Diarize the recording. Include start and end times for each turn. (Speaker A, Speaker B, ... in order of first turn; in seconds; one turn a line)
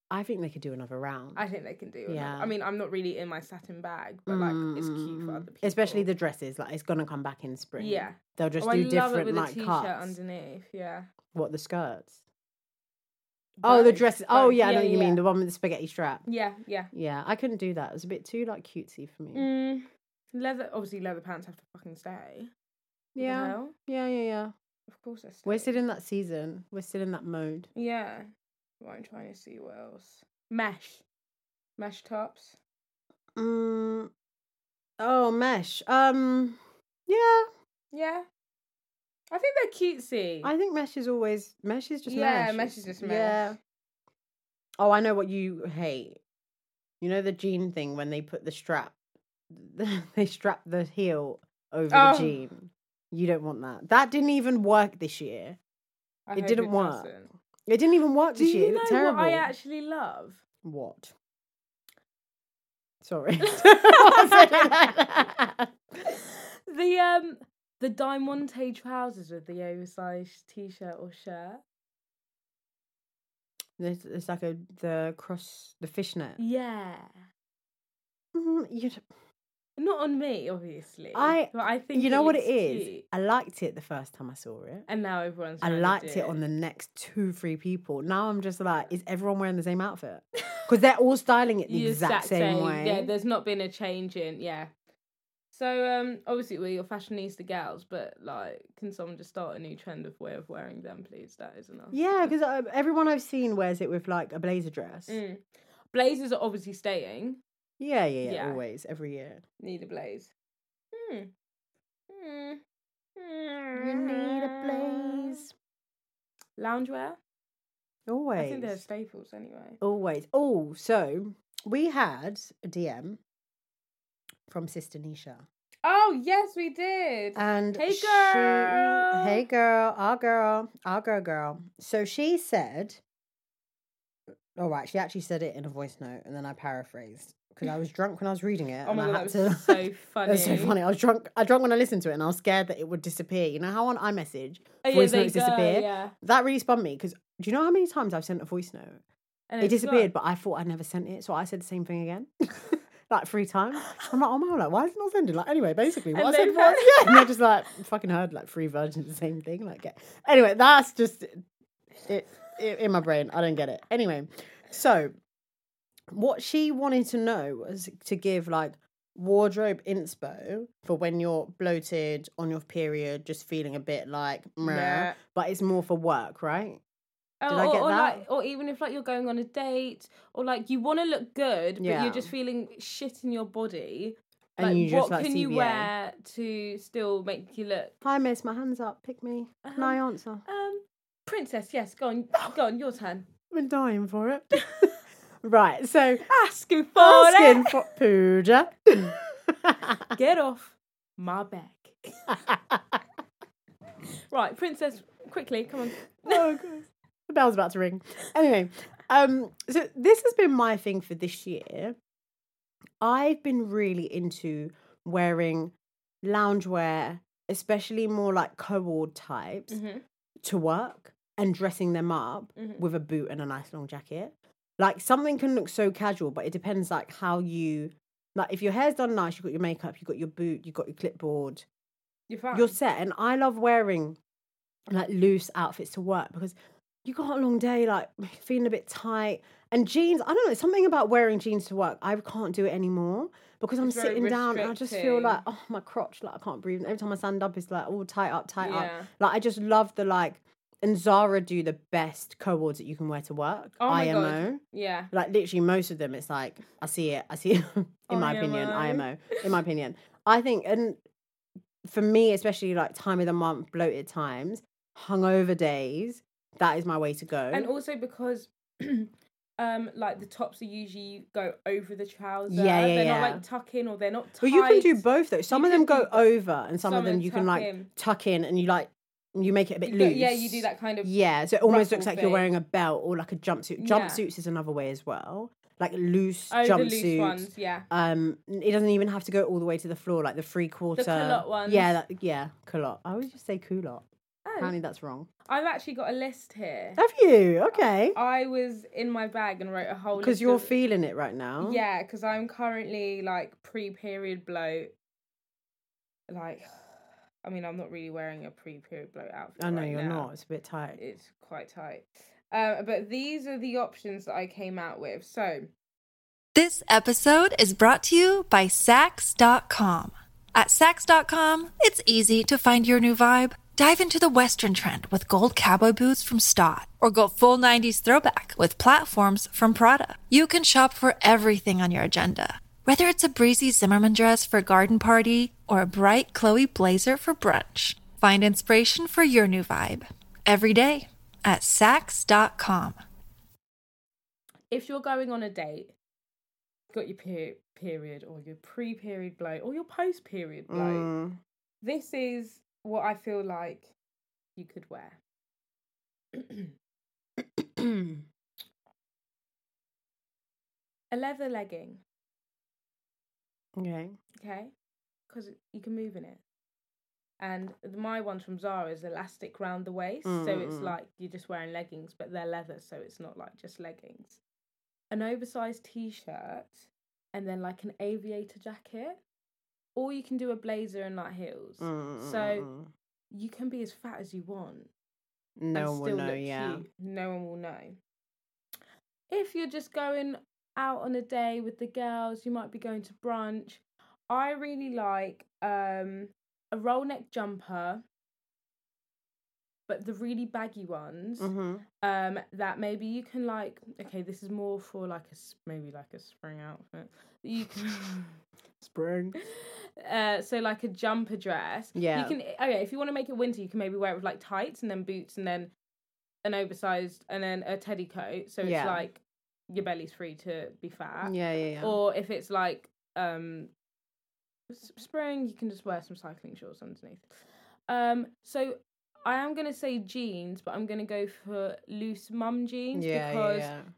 Speaker A: 0.1-1.4
Speaker B: 1.4-6.1
Speaker A: 2.1-2.5
Speaker A: 4.3-10.2
Speaker B: 7.8-11.1
Speaker A: 11.3-12.2
Speaker B: 13.6-15.2
Speaker A: 13.6-16.3
Speaker B: 16.3-16.9
Speaker A: 16.9-19.5
Speaker B: 19.3-22.5
Speaker A: 23.1-24.5
Speaker B: 23.2-23.7
Speaker B: 24.9-25.8
Speaker A: 25.4-27.7
Speaker B: 27.8-28.3
Speaker B: 28.8-31.0
Speaker B: 31.8-32.6
Speaker A: 33.4-34.1
Speaker A: 35.0-37.5
Speaker B: 37.9-38.3
Speaker B: 39.3-40.5
Speaker A: 40.4-43.6
Speaker B: 42.1-43.5
Speaker A: 44.8-46.2
Speaker A: 47.0-49.0
Speaker A: 49.5-55.6
Speaker B: 51.9-52.4
Speaker B: 56.3-57.3
Speaker A: 56.4-57.1
Speaker A: 57.7-59.5
Speaker B: 58.4-60.4
Speaker A: 60.6-61.1
Speaker A: 63.0-65.7
Speaker B: 63.4-64.8
Speaker B: 66.0-71.6
Speaker A: 73.8-76.4
Speaker B: 76.4-77.1
Speaker A: 78.3-79.0
Speaker B: 79.8-83.0
Speaker A: 81.1-84.9
Speaker B: 84.9-86.4
Speaker A: 85.6-93.1
Speaker B: 91.7-94.7
Speaker B: 95.5-102.3
Speaker A: 101.9-105.2
Speaker B: 105.1-107.4
Speaker A: 107.8-109.4
Speaker B: 108.2-108.6
Speaker B: 109.6-110.3
Speaker B: 110.9-111.3
Speaker B: 112.1-112.6
Speaker B: 113.2-115.4
Speaker A: 113.8-115.5
Speaker B: 116.6-117.2
Speaker A: 118.1-118.8
Speaker B: 118.4-119.8
Speaker A: 119.8-123.2
Speaker A: 124.5-125.5
Speaker B: 125.8-129.4
Speaker A: 127.4-133.0
Speaker A: 134.6-149.0
Speaker B: 138.8-140.8
Speaker B: 144.8-146.1
Speaker B: 149.5-150.1
Speaker A: 149.6-161.4
Speaker B: 156.1-157.3
Speaker A: 162.1-165.1
Speaker A: 166.1-176.8
Speaker B: 174.6-175.2
Speaker B: 177.4-187.9
Speaker A: 177.5-178.2
Speaker A: 181.8-182.3
Speaker A: 184.6-185.9
Speaker A: 188.0-190.4
Speaker B: 189.6-193.3
Speaker A: 193.5-194.9
Speaker A: 195.4-196.3
Speaker B: 196.3-197.8
Speaker A: 197.0-200.0
Speaker B: 200.1-202.4
Speaker A: 202.5-202.8
Speaker B: 204.3-206.6
Speaker A: 206.2-212.0
Speaker A: 213.0-219.8
Speaker B: 219.7-220.0
Speaker A: 220.4-231.7
Speaker B: 222.6-222.8
Speaker B: 232.3-232.8
Speaker A: 232.5-234.2
Speaker A: 234.9-254.6
Speaker B: 243.8-245.4
Speaker B: 248.6-249.1
Speaker B: 253.8-255.1
Speaker A: 255.1-261.0
Speaker B: 258.1-259.4
Speaker A: 261.8-267.7
Speaker B: 267.5-276.2
Speaker A: 272.5-273.4
Speaker A: 274.4-294.1
Speaker B: 276.8-277.9
Speaker B: 279.9-282.5
Speaker B: 283.8-284.2
Speaker B: 286.5-287.9
Speaker B: 291.0-291.9
Speaker B: 294.4-294.8
Speaker A: 294.6-295.3
Speaker B: 295.5-297.0
Speaker A: 297.0-298.2
Speaker B: 297.7-300.8
Speaker A: 300.2-301.8
Speaker B: 301.6-304.9
Speaker B: 306.3-306.7
Speaker B: 307.4-310.3
Speaker A: 309.6-311.0
Speaker B: 311.0-315.7
Speaker C: 316.6-343.0
Speaker B: 344.7-346.0
Speaker B: 346.9-351.1
Speaker A: 350.7-351.4
Speaker B: 351.8-353.9
Speaker B: 354.6-355.2
Speaker B: 356.3-356.7
Speaker B: 361.1-362.0
Speaker A: 363.8-364.1
Speaker B: 364.4-364.7
Speaker B: 365.3-366.4
Speaker B: 367.4-374.4
Speaker A: 370.2-371.0
Speaker B: 375.1-379.2
Speaker B: 380.0-382.7
Speaker A: 381.8-382.9
Speaker B: 383.3-384.9
Speaker A: 385.6-386.9
Speaker B: 385.7-388.0
Speaker B: 389.3-398.0
Speaker B: 399.9-408.4
Speaker A: 401.4-401.9
Speaker A: 408.8-409.4
Speaker B: 409.4-415.7
Speaker A: 411.9-412.4
Speaker B: 416.4-423.7
Speaker A: 418.6-419.0
Speaker A: 421.2-422.0
Speaker B: 424.7-427.3
Speaker B: 427.9-433.7
Speaker A: 432.9-433.9